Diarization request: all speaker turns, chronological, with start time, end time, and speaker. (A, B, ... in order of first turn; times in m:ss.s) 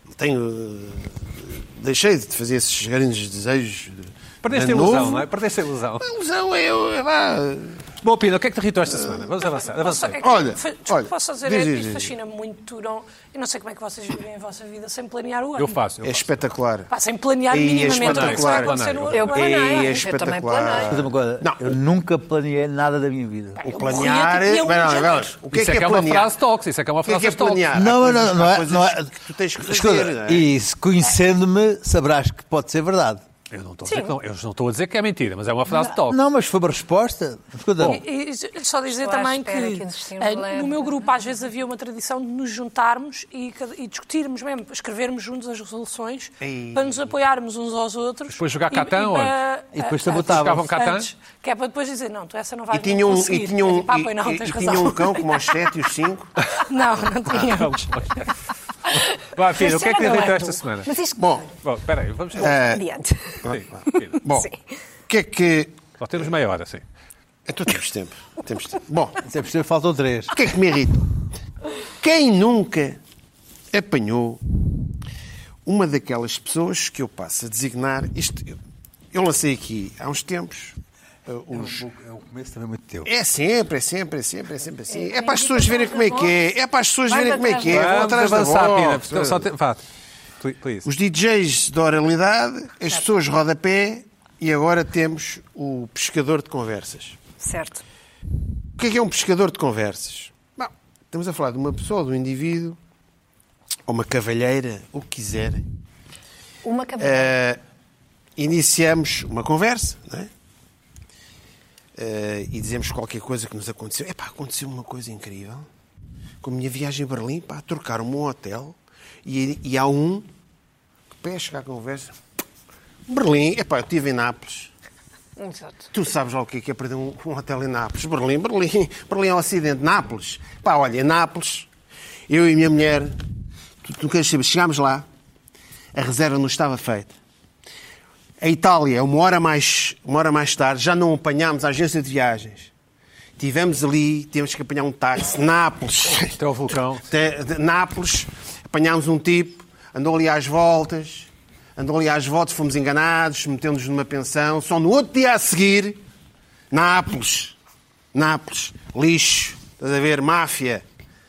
0:00.2-0:05.3 A
0:04.4-0:06.1 B
0:06.0-0:07.8 A
0:08.0-0:10.2 B
0:09.8-0:15.8 C
0:10.2-0:12.1 A
0:15.6-0:16.3 B
0:16.0-0:16.9 A
0:16.9-0:19.9 C
0:17.5-0:21.7 A
0:17.9-0:19.3 B
0:19.1-0:21.0 D
0:20.8-0:23.6 E
0:23.6-0:25.3 C
0:23.6-0:26.3 A
0:25.5-0:27.7 B
0:27.0-0:30.5 A
0:27.7-0:33.2 E
0:33.5-0:36.2 B
0:33.9-0:34.1 D
0:35.7-0:38.0 E
0:37.8-0:55.6 C
0:38.9-0:41.1 D
0:46.4-0:47.1 A
0:48.3-0:49.3 B
0:49.7-0:50.7 E
0:50.1-0:51.1 B
0:52.7-0:56.3 A
0:56.6-0:58.2 C
0:57.3-0:58.3 B
0:59.2-1:01.0 B
0:59.5-1:01.4 D
1:01.2-1:01.5 A
1:01.6-1:02.6 B
1:02.4-1:02.8 A
1:02.4-1:03.5 D
1:03.4-1:04.2 B
1:04.2-1:04.5 A
1:04.3-1:04.6 D
1:05.1-1:05.8 A
1:06.0-1:06.8 B
1:07.5-1:09.2 A
1:09.2-1:10.4 E
1:10.3-1:11.1 A
1:12.0-1:13.0 A
1:13.7-1:14.4 A
1:15.6-1:18.6 A
1:19.1-1:20.8 A
1:21.3-1:21.8 A
1:21.5-1:23.1 E
1:23.0-1:29.4 A
1:24.9-1:26.4 D
1:27.1-1:28.0 D
1:27.7-1:29.8 B
1:30.4-1:30.9 B
1:30.8-1:37.2 A
1:37.4-1:37.8 D
1:38.8-1:42.8 A
1:43.9-1:45.6 A
1:46.6-1:47.3 D
1:47.0-1:47.6 A
1:48.4-1:50.3 A
1:52.0-1:55.7 A
1:56.4-2:00.3 A
2:01.2-2:02.1 A
2:03.1-2:04.7 A
2:05.4-2:05.9 D
2:05.9-2:11.7 A
2:12.3-2:13.2 A
2:13.8-2:15.0 A
2:15.9-2:17.1 A
2:18.4-2:22.7 A
2:23.4-2:26.4 A
2:26.4-2:27.1 B
2:27.0-2:36.0 A
2:36.7-2:37.6 A
2:38.1-2:40.8 A